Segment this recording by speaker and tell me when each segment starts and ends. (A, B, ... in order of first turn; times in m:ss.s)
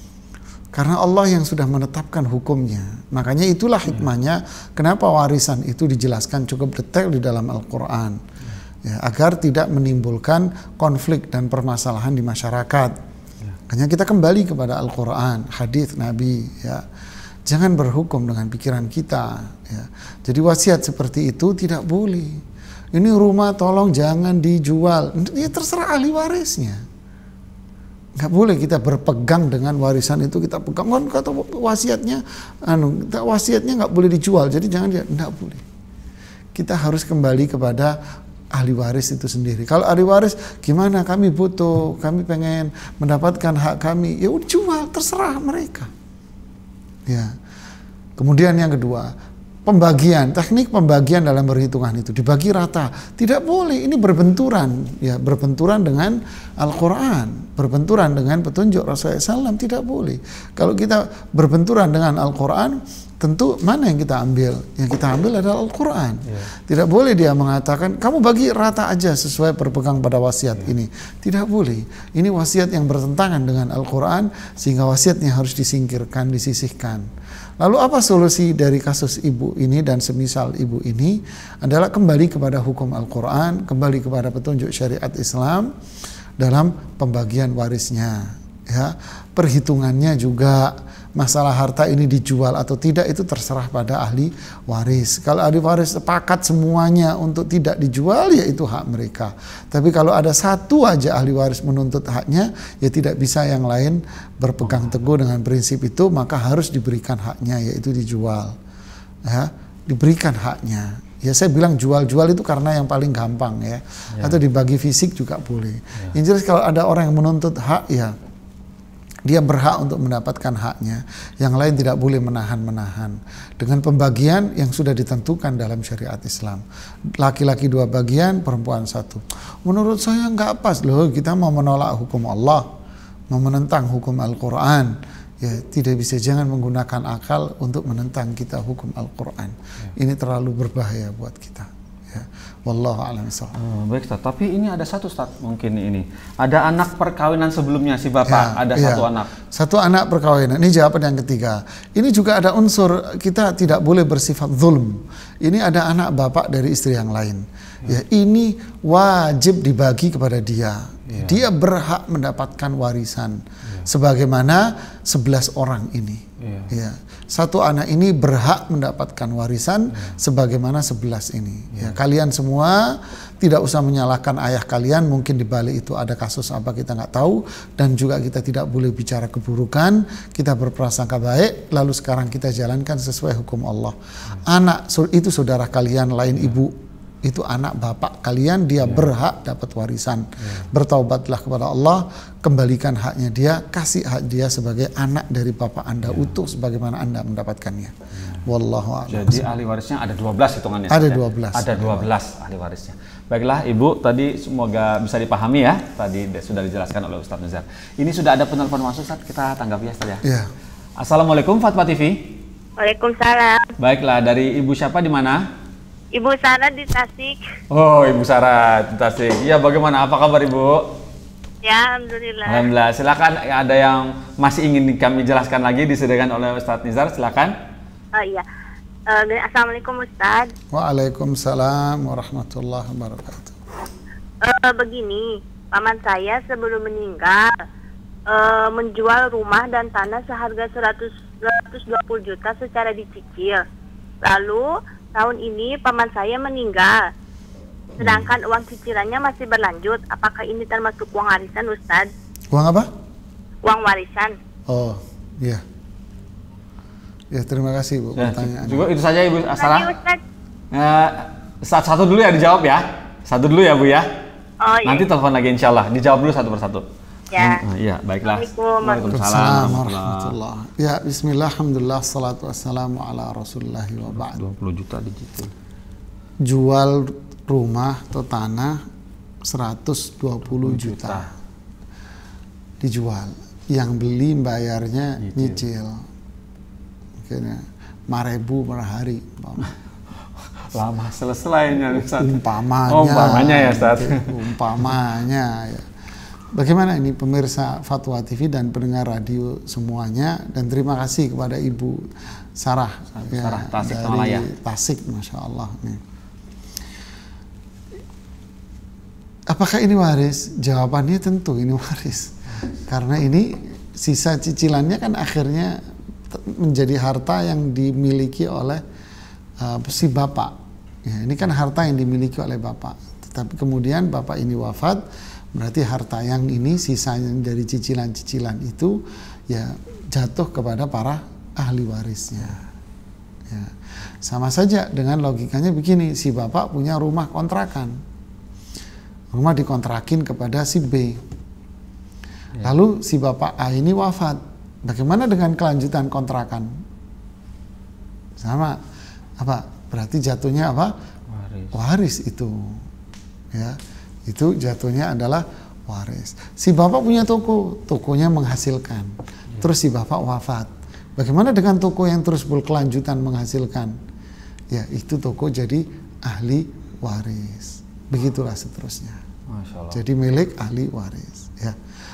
0:00.7-0:08.2 A
0:08.8-0:12.9 A
0:13.7-0:16.8 A
0:17.4-0:26.8 A
0:28.2-0:35.6 A
0:36.5-0:38.0 A
0:38.5-0:45.9 A
0:47.1-0:47.4 A
0:48.2-0:49.1 A
0:49.6-1:17.1 A
1:17.6-1:25.7 A
1:26.4-1:48.6 A
1:44.6-1:45.1 B
1:49.2-1:58.1 A
1:54.1-1:54.4 B
1:59.2-2:06.6 A
2:07.2-2:12.7 A
2:13.3-2:23.6 A
2:23.5-2:29.3 B
2:28.3-3:19.4 A
2:41.1-2:41.4 B
2:46.4-2:46.7 B
2:51.7-2:52.0 B
3:08.8-3:09.1 B
3:10.4-3:10.7 B
3:16.0-3:16.3 B
3:18.1-3:18.4 B
3:19.0-3:30.2 B
3:20.9-3:22.1 A
3:30.2-3:30.5 A
3:31.0-3:32.4 B
3:32.8-3:33.7 C
3:33.8-3:35.4 B
3:36.1-3:37.4 C
3:37.7-3:41.0 B
3:41.6-3:42.7 C
3:42.4-3:47.5 B
3:48.2-3:48.4 C
3:49.1-3:50.5 C
3:50.7-3:53.6 A
3:54.4-3:57.5 C
3:58.3-4:03.6 C
4:04.2-4:07.1 C
4:08.0-4:12.1 C
4:12.5-4:12.9 A
4:13.6-4:14.4 C
4:14.7-4:15.6 A
4:17.3-4:18.9 A
4:18.2-4:19.9 B
4:19.6-4:20.2 C
4:20.7-4:24.1 B
4:24.6-4:25.1 C
4:24.8-4:30.3 B
4:27.3-4:27.6 C
4:28.2-4:29.1 C
4:29.1-4:34.4 A
4:34.1-4:35.5 B
4:36.4-4:38.8 A
4:39.4-4:41.3 A
4:40.5-4:41.3 B
4:42.8-4:46.0 A
4:45.2-4:45.6 B
4:47.2-4:49.7 A
4:50.7-4:54.3 B
4:51.9-4:55.9 A
4:56.5-5:06.0 A
5:03.1-5:04.5 B
5:09.5-5:18.8 A
5:19.6-5:32.6 A
5:33.5-5:38.0 A
5:39.3-5:41.2 A
5:42.6-5:46.7 A
5:48.4-5:48.8 A
5:49.4-5:50.9 A
5:51.3-5:51.7 B
5:51.7-5:52.8 A
5:53.5-6:04.0 A
6:04.7-6:09.2 A
6:09.5-6:10.0 B
6:09.9-6:11.8 A